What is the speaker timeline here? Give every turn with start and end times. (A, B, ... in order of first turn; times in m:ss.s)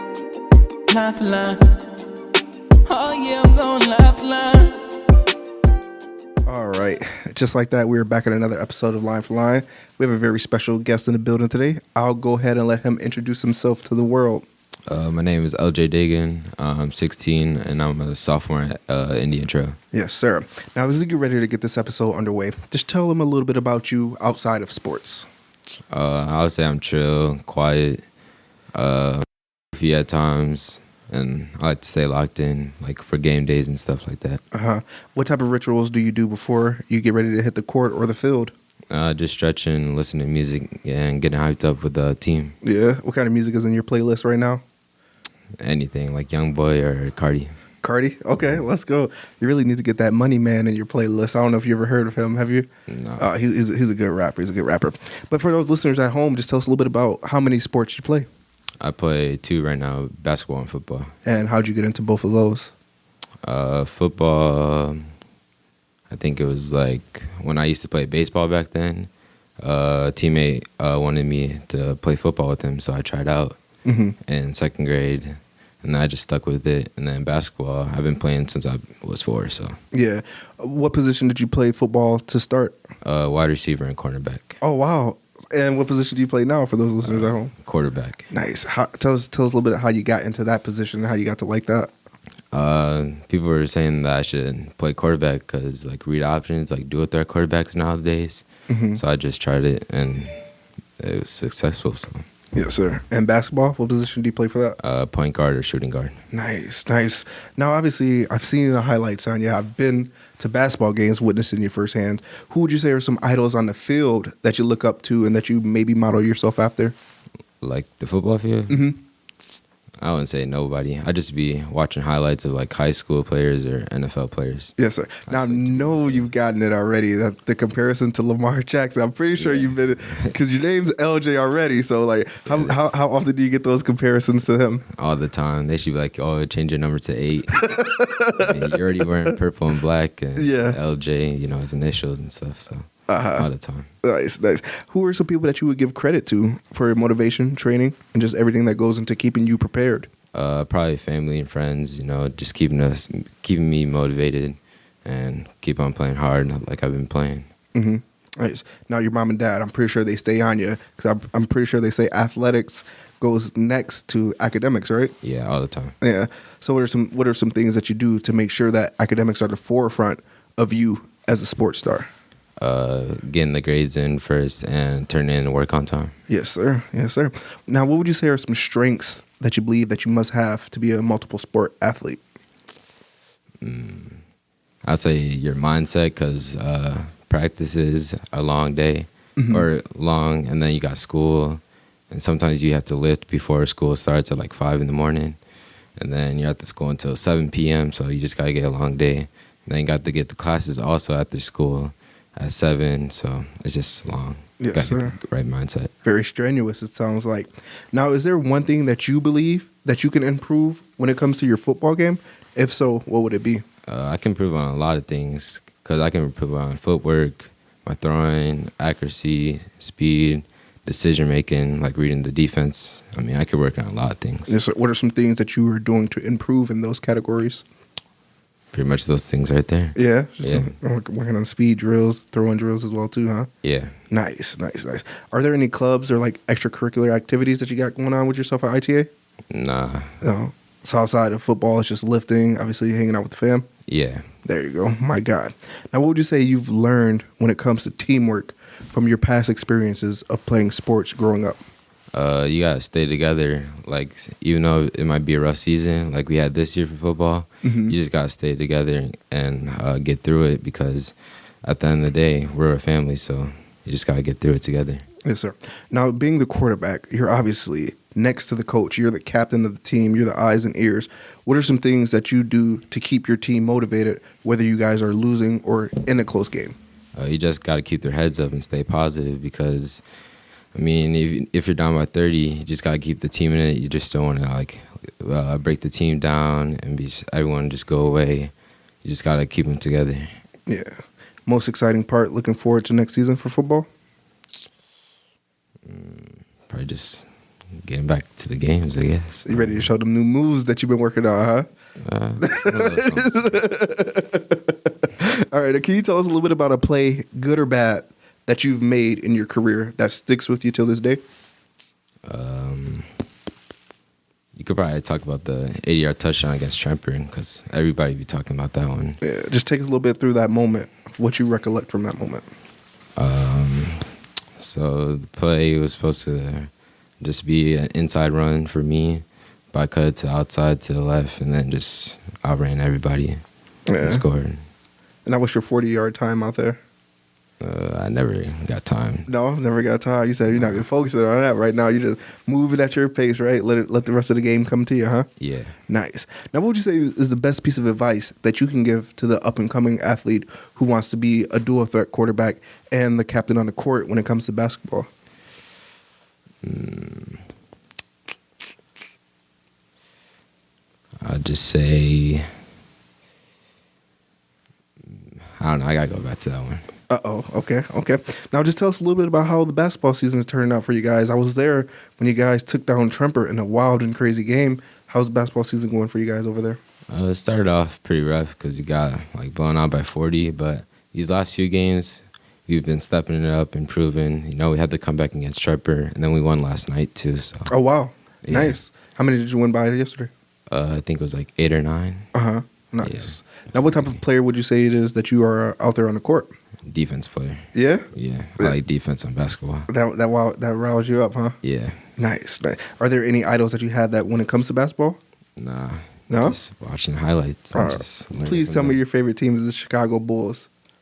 0:00.9-0:01.6 A
0:02.8-0:04.8 A
0:06.4-0:14.4 B
0:14.9-0:19.8 C
0:19.9-0:25.3 B
0:25.9-0:28.0 C
0:28.7-0:34.4 C
0:34.5-0:38.5 B
0:38.9-0:42.6 C
0:42.6-0:44.6 B
0:45.6-0:47.5 C
0:47.8-0:52.7 B
0:52.9-0:53.3 C
0:53.2-0:58.3 B
0:58.8-1:01.1 C
1:01.2-1:02.7 B
1:03.4-1:05.1 C
1:06.1-1:09.1 C
1:09.6-1:13.6 C
1:13.8-1:14.1 B
1:14.2-1:19.8 C
1:19.9-1:22.8 B
1:23.0-1:24.6 C
1:24.6-1:27.5 B
1:27.0-1:28.3 C
1:28.3-1:31.9 B
1:32.5-1:40.3 C
1:38.7-1:39.0 B
1:41.0-1:42.2 C
1:42.5-1:44.8 B
1:44.8-1:46.2 C
1:46.3-1:57.0 B
1:57.6-1:58.9 C
1:58.7-1:59.0 B
2:00.0-2:04.7 C
2:04.8-2:14.8 B
2:05.3-2:06.3 C
2:09.4-2:10.3 C
2:12.4-2:12.9 C
2:14.9-2:17.8 C
2:17.5-2:19.4 B
2:18.4-2:23.9 C
2:20.3-2:20.8 B
2:23.1-2:23.5 B
2:24.0-2:30.1 B
2:30.3-2:37.5 C
2:37.7-2:45.1 B
2:45.2-2:46.0 C
2:46.0-2:52.1 B
2:52.6-2:56.1 C
2:56.3-3:02.2 B
3:03.6-3:04.2 C
3:04.8-3:15.4 C
3:09.4-3:09.7 B
3:16.0-3:25.9 C
3:24.6-3:25.2 B
3:26.0-3:33.6 B
3:33.8-3:44.5 C
3:44.5-3:47.6 B
3:48.7-3:50.7 C
3:49.9-3:53.5 B
3:53.6-3:53.9 C
3:54.1-3:59.1 B
3:59.5-4:00.1 C
4:00.2-4:03.7 B
4:03.9-4:04.3 C
4:04.4-4:11.6 B
4:12.1-4:25.0 C
4:17.6-4:18.0 B
4:25.2-4:36.8 B
4:37.1-4:40.0 C
4:40.7-4:48.5 C
4:49.0-4:50.3 C
4:50.7-4:53.9 B
4:55.8-4:57.2 C
4:57.8-4:59.9 C
4:59.5-5:01.7 B
5:02.0-5:03.8 C
5:02.4-5:11.2 B
5:12.2-5:13.1 C
5:14.5-5:19.2 C
5:19.2-5:22.5 B
5:23.2-5:26.7 C
5:27.2-5:33.4 C
5:33.9-5:34.2 B
5:34.0-5:34.6 C
5:35.2-5:36.8 B
5:37.6-5:39.3 C
5:39.3-5:45.3 B
5:40.5-5:40.8 C
5:45.4-5:45.8 C
5:45.9-5:55.1 B
5:56.6-5:57.4 C
6:01.2-6:02.4 C
6:05.0-6:06.8 C
6:07.1-6:16.8 B
6:17.1-6:27.7 C
6:27.7-6:30.3 B
6:28.4-6:28.8 C
6:30.7-6:32.3 C
6:32.3-6:36.5 B
6:33.0-6:34.1 C
6:36.8-6:39.9 C
6:37.7-6:38.1 B
6:39.9-6:41.6 B
6:41.6-6:42.0 C
6:42.2-6:45.2 B
6:45.6-6:49.0 C
6:46.3-6:46.6 B
6:47.7-6:50.7 B